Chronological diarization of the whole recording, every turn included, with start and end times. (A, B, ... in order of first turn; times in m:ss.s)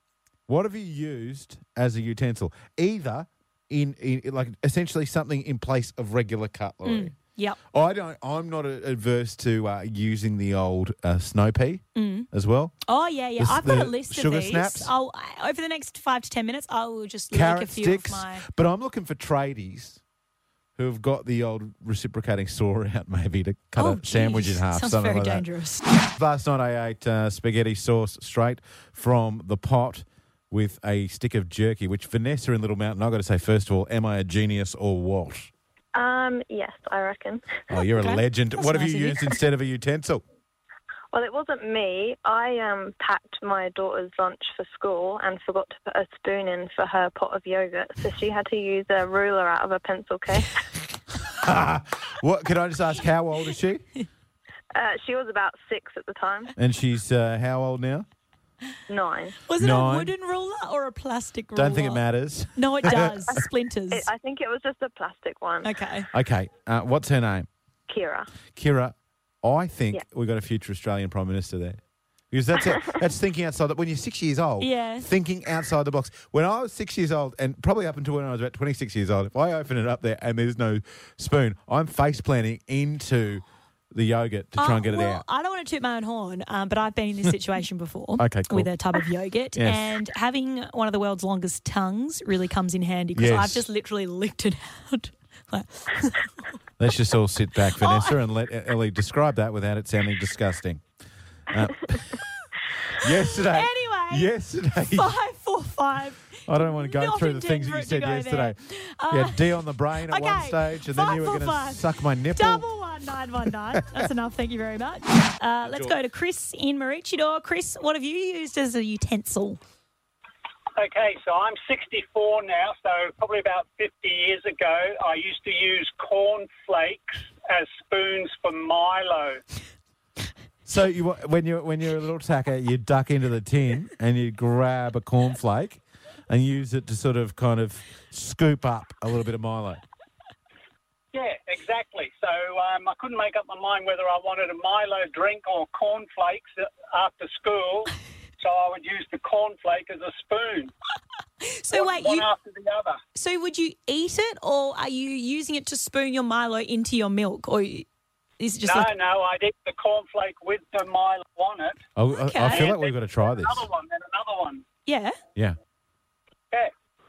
0:00.5-0:07.1 A
0:06.8-0:07.6 B
0:07.7-0:12.8 A
0:11.9-0:12.3 B
0:12.8-0:18.4 B
0:13.4-0:14.9 A
0:17.3-0:20.0 A
0:20.8-0:35.5 A
0:23.8-0:25.8 B
0:35.9-0:37.5 C
0:37.7-0:40.2 A
0:37.7-0:39.3 B
0:41.1-0:50.5 C
0:51.3-0:53.9 A
0:54.7-0:56.5 C
0:56.6-0:58.1 A
0:58.9-0:59.4 C
0:59.5-1:02.0 B
0:59.6-1:00.1 A
1:01.5-1:03.4 A
1:02.5-1:04.1 B
1:02.8-1:05.7 C
1:05.6-1:06.1 B
1:06.1-1:07.5 A
1:07.9-1:08.3 C
1:08.5-1:25.2 A
1:14.6-1:15.1 B
1:24.6-1:36.3 B
1:28.2-1:28.7 A
1:29.5-1:29.9 A
1:33.1-1:33.6 A
1:36.8-1:40.8 A
1:37.7-1:38.2 B
1:41.5-1:42.2 A
1:42.9-1:45.1 A
1:43.0-1:44.3 B
1:44.9-1:49.5 B
1:46.5-1:48.6 A
1:49.1-1:52.7 A
1:50.0-1:59.6 B
1:53.5-1:54.1 A
1:55.6-1:56.0 A
2:00.8-2:09.4 D
2:10.6-2:19.8 A
2:21.1-2:30.7 D
2:31.4-2:32.3 B
2:31.7-2:33.0 D
2:33.1-2:37.9 B
2:38.4-2:38.9 B
2:38.6-2:41.8 D
2:42.0-2:43.7 A
2:42.1-2:42.7 B
2:42.4-2:44.6 D
2:44.8-2:45.2 B